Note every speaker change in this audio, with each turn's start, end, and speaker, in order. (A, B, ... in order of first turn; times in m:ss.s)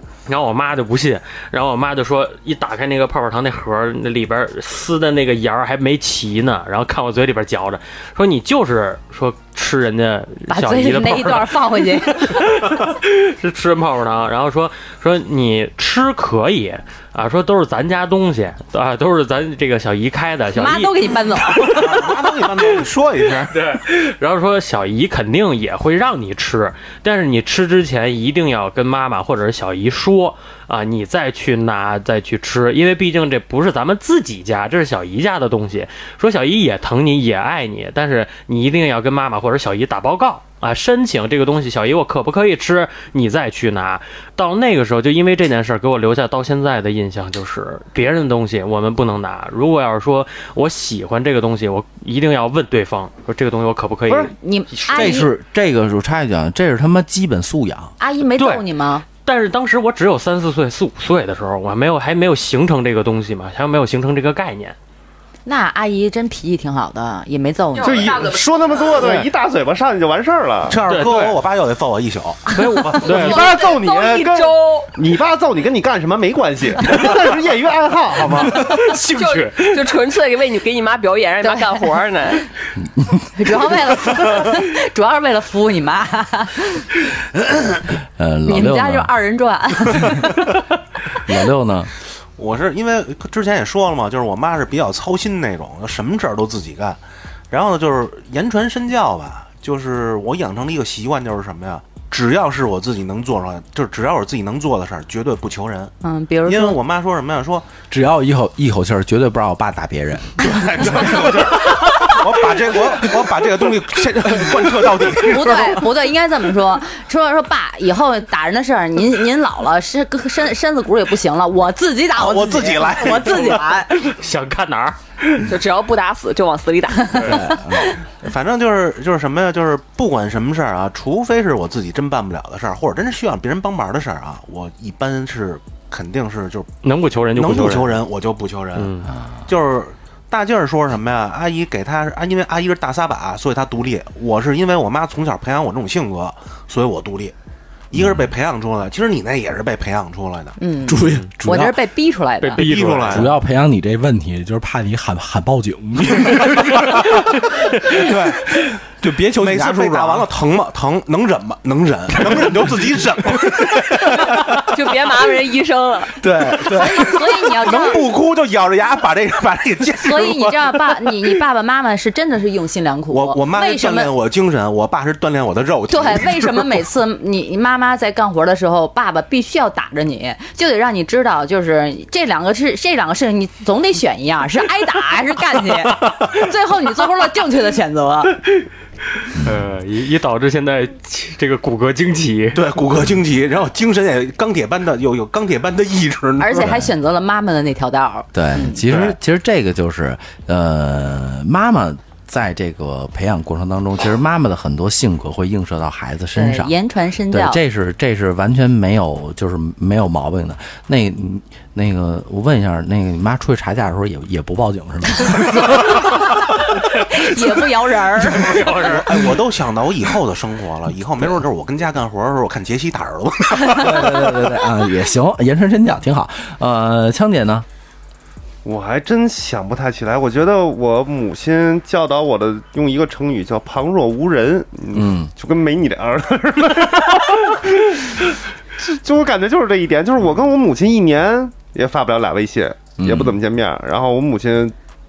0:00.3-0:20.9 A
0:10.5-0:12.5 B
0:20.5-0:22.2 B
0:21.6-0:23.6 C
0:23.5-0:54.3 A
0:54.1-0:55.3 B
0:54.9-0:57.9 D
0:58.0-0:59.0 B
0:58.4-0:58.6 A
0:59.2-1:04.8 A
1:05.4-1:08.3 B
1:07.8-1:09.1 E
1:07.8-1:10.8 F
1:09.0-1:09.3 A
1:10.7-1:12.6 C
1:10.9-1:11.4 A
1:12.5-1:13.4 A
1:12.6-1:13.3 B
1:12.9-1:18.8 F
1:13.1-1:14.9 E
1:18.3-1:19.9 A
1:19.0-1:22.4 E
1:21.5-1:21.8 B
1:23.0-1:23.3 D
1:23.3-1:26.9 B
1:28.2-1:29.1 D
1:28.5-1:30.6 B
1:29.9-1:30.3 D
1:31.2-1:31.9 D
1:32.4-1:45.9 C
1:46.0-1:46.8 B
1:46.4-1:47.7 C
1:47.9-1:51.3 D
1:50.4-1:55.9 C
1:55.2-2:04.0 B
2:02.1-2:03.7 C
2:04.0-2:05.0 A
2:05.4-2:07.5 E
2:07.2-2:07.9 D
2:08.2-2:16.7 C
2:16.8-2:18.0 A
2:17.3-2:27.3 C
2:18.7-2:19.1 A
2:19.1-2:19.4 D
2:27.9-2:30.6 C
2:28.0-2:28.3 D
2:30.6-2:32.6 B
2:30.8-2:31.8 D
2:32.4-2:33.3 A
2:32.6-2:33.3 C
2:33.0-2:40.3 D
2:37.9-2:38.3 C
2:39.4-2:44.6 C
2:42.2-2:42.5 D
2:44.7-2:46.2 E
2:46.2-2:47.2 D
2:46.7-2:48.0 B
2:46.7-2:51.1 C
2:50.0-2:54.1 B
2:53.1-2:56.7 C
2:55.9-3:08.4 B
3:09.2-3:12.7 A
3:09.3-3:09.6 D
3:12.6-3:16.7 C
3:16.4-3:18.8 B
3:16.6-3:16.9 D
3:18.3-3:26.7 D
3:18.9-3:19.1 C
3:26.3-3:27.6 B
3:27.3-3:36.2 D
3:35.2-3:38.6 B
3:38.4-3:39.2 A
3:38.4-3:44.4 C
3:43.7-3:47.7 D
3:48.6-4:04.7 F
3:54.9-3:55.3 D
4:03.0-4:03.4 D